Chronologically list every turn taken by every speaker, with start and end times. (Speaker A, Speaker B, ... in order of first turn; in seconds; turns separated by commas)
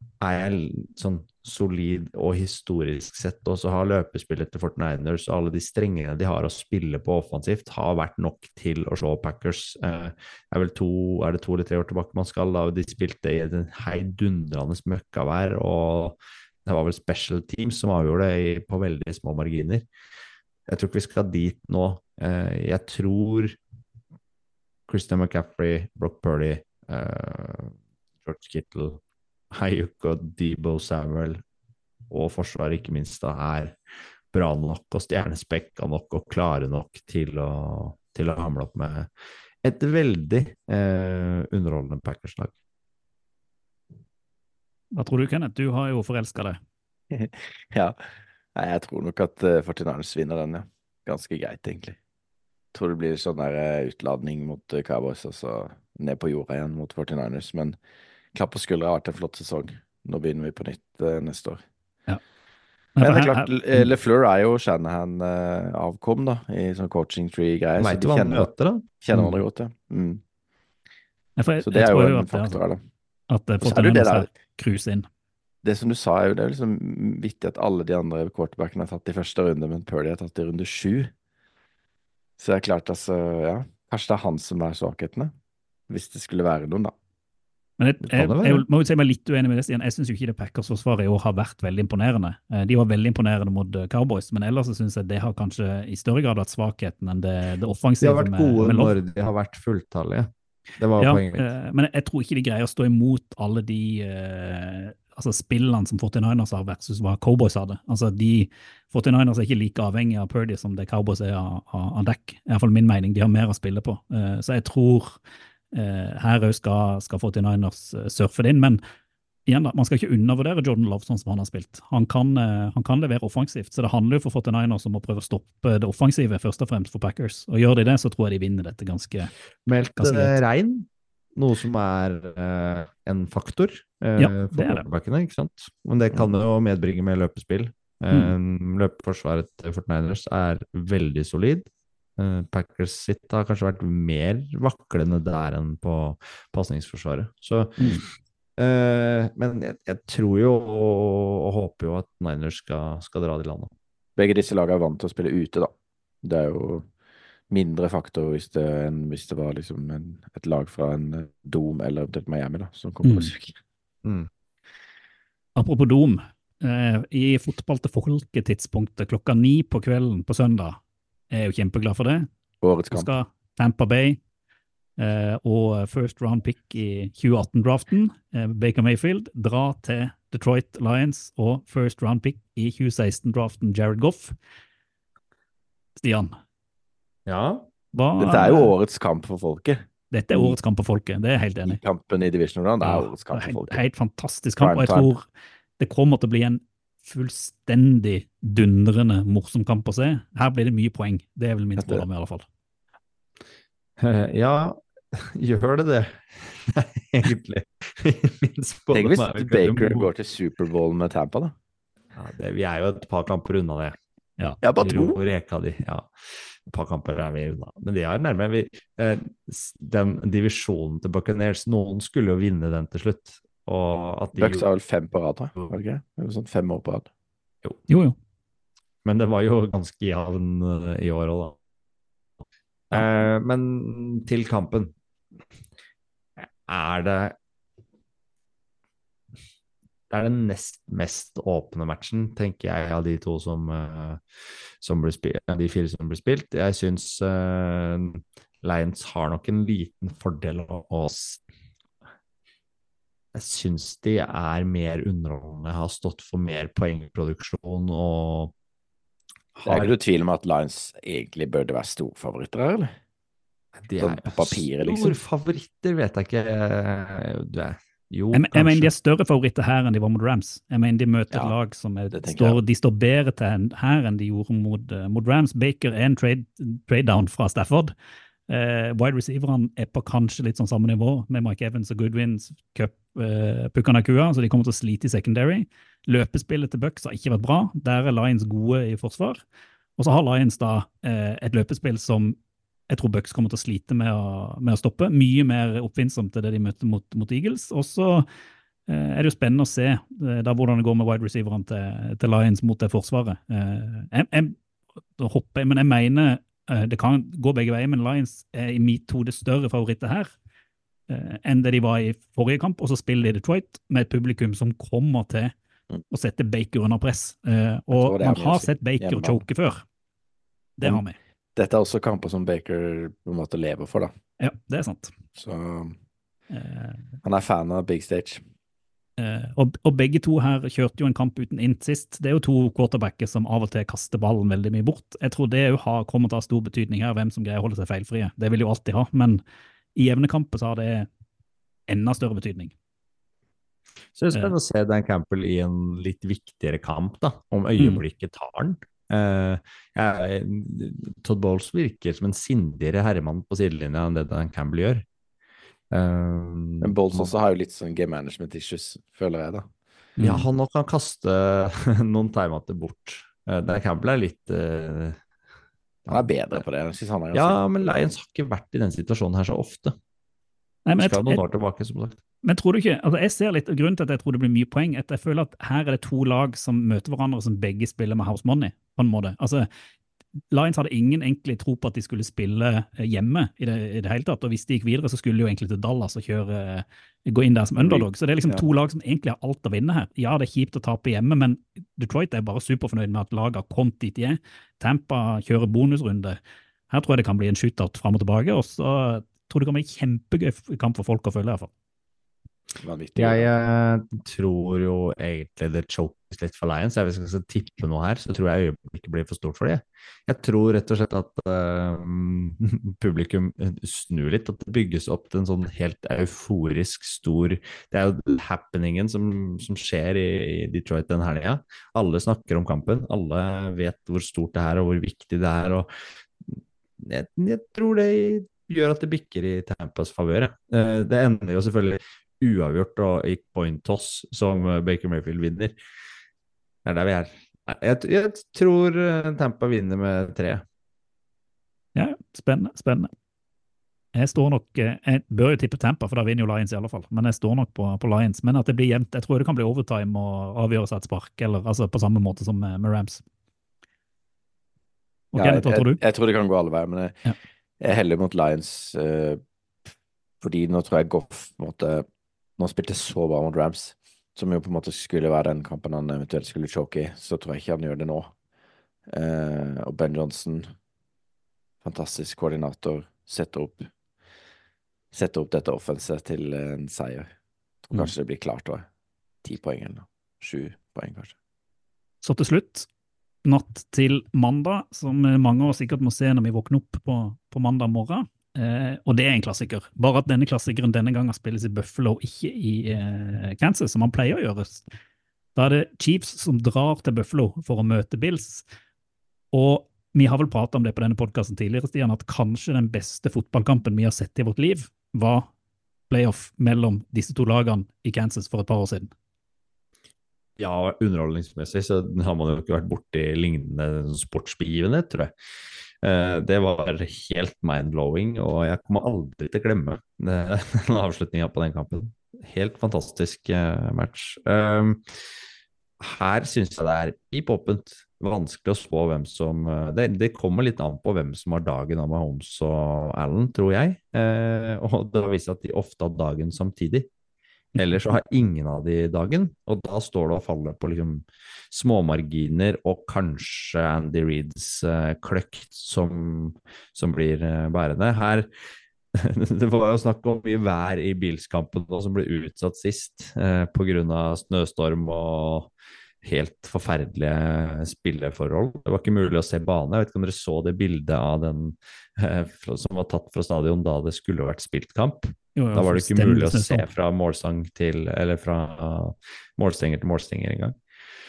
Speaker A: 0.2-19.9, Speaker A: 20.7-23.6, Speaker A: 24.9-29.0, Speaker A: 29.5-31.4, Speaker A: 32.1-33.8, Speaker A: 34.3-39.1, Speaker A: 39.6-42.5, Speaker B: 44.9-46.6, Speaker C: 47.1-48.0, Speaker C: 48.6-52.0, Speaker C: 52.7-57.8, Speaker C: 58.3-61.6, Speaker B: 63.0-63.9, Speaker C: 63.0-68.5, Speaker A: 67.8-68.9, Speaker C: 69.0-70.2, Speaker B: 71.4-72.6, Speaker C: 71.6-72.8, Speaker B: 73.3-75.1, Speaker C: 73.6-74.3, Speaker C: 75.6-81.1, Speaker C: 82.4-85.3, Speaker C: 85.9-86.9, Speaker B: 87.8-99.0, Speaker A: 88.0-88.7, Speaker A: 98.0-101.5, Speaker B: 101.0-115.2, Speaker B: 115.7-118.8, Speaker B: 119.5-129.3, Speaker A: 129.7-148.0, Speaker B: 130.0-130.4, Speaker B: 134.2-134.8, Speaker A: 148.6-153.7, Speaker C: 154.2-155.7, Speaker C: 156.2-156.9, Speaker C: 157.5-163.6, Speaker B: 163.0-163.3, Speaker A: 164.0-164.3, Speaker B: 165.6-170.8, Speaker B: 171.3-172.3, Speaker C: 172.6-173.1, Speaker B: 172.9-174.2, Speaker B: 175.0-184.3, Speaker B: 186.0-186.3, Speaker A: 187.3-187.7, Speaker B: 187.9-188.7, Speaker C: 188.2-190.6, Speaker B: 190.1-191.8, Speaker C: 191.7-193.8, Speaker B: 192.8-195.3, Speaker C: 194.6-195.1, Speaker B: 195.8-202.5, Speaker C: 201.8-202.1, Speaker A: 204.0-210.1, Speaker C: 208.9-211.5, Speaker A: 212.2-214.0, Speaker C: 214.6-215.2, Speaker A: 214.8-224.7, Speaker C: 224.3-227.1, Speaker B: 227.9-228.2, Speaker A: 229.0-231.6, Speaker A: 232.9-234.9, Speaker A: 236.4-237.4, Speaker A: 240.1-244.2, Speaker A: 244.8-251.4, Speaker A: 253.3-258.5, Speaker A: 259.6-259.9, Speaker C: 259.7-262.9, Speaker A: 263.8-268.9, Speaker C: 264.0-265.2, Speaker B: 268.3-277.9, Speaker C: 272.1-272.6, Speaker B: 278.5-289.4, Speaker B: 290.0-292.4, Speaker B: 292.9-298.3, Speaker B: 298.9-304.6, Speaker B: 305.2-310.3, Speaker B: 311.1-315.5, Speaker B: 316.1-319.8, Speaker C: 317.9-319.4, Speaker B: 320.8-321.2, Speaker C: 321.6-324.1, Speaker B: 324.4-325.1, Speaker C: 325.4-326.0, Speaker B: 326.5-327.2, Speaker C: 327.2-328.4, Speaker B: 329.2-339.4, Speaker B: 340.0-341.1, Speaker B: 341.9-342.7, Speaker A: 344.1-355.1, Speaker A: 355.9-357.3, Speaker C: 356.8-359.7, Speaker B: 360.2-360.5, Speaker A: 360.2-365.2, Speaker A: 366.1-366.6, Speaker C: 366.1-368.1, Speaker A: 367.3-369.9, Speaker B: 370.9-371.4, Speaker A: 371.0-372.2, Speaker B: 372.4-379.7, Speaker B: 380.5-396.4, Speaker C: 387.8-388.6, Speaker B: 396.9-401.7, Speaker C: 402.8-403.5, Speaker A: 403.2-425.9, Speaker A: 426.4-435.8, Speaker A: 436.8-440.6, Speaker B: 441.9-443.1, Speaker B: 444.1-453.2, Speaker B: 455.3-456.0, Speaker C: 455.4-457.2, Speaker C: 457.8-459.4, Speaker C: 460.4-462.1, Speaker C: 462.6-468.3, Speaker C: 469.1-470.7, Speaker C: 471.8-473.9, Speaker C: 475.1-477.3, Speaker C: 477.9-478.9, Speaker C: 479.4-481.4, Speaker B: 482.2-482.9, Speaker B: 483.4-494.9, Speaker B: 495.6-498.6, Speaker B: 499.5-505.5, Speaker B: 506.1-509.1, Speaker A: 510.6-515.3, Speaker A: 516.0-525.1, Speaker A: 526.0-537.1, Speaker A: 537.8-548.5, Speaker A: 549.1-555.7, Speaker A: 556.2-570.8, Speaker B: 565.6-566.9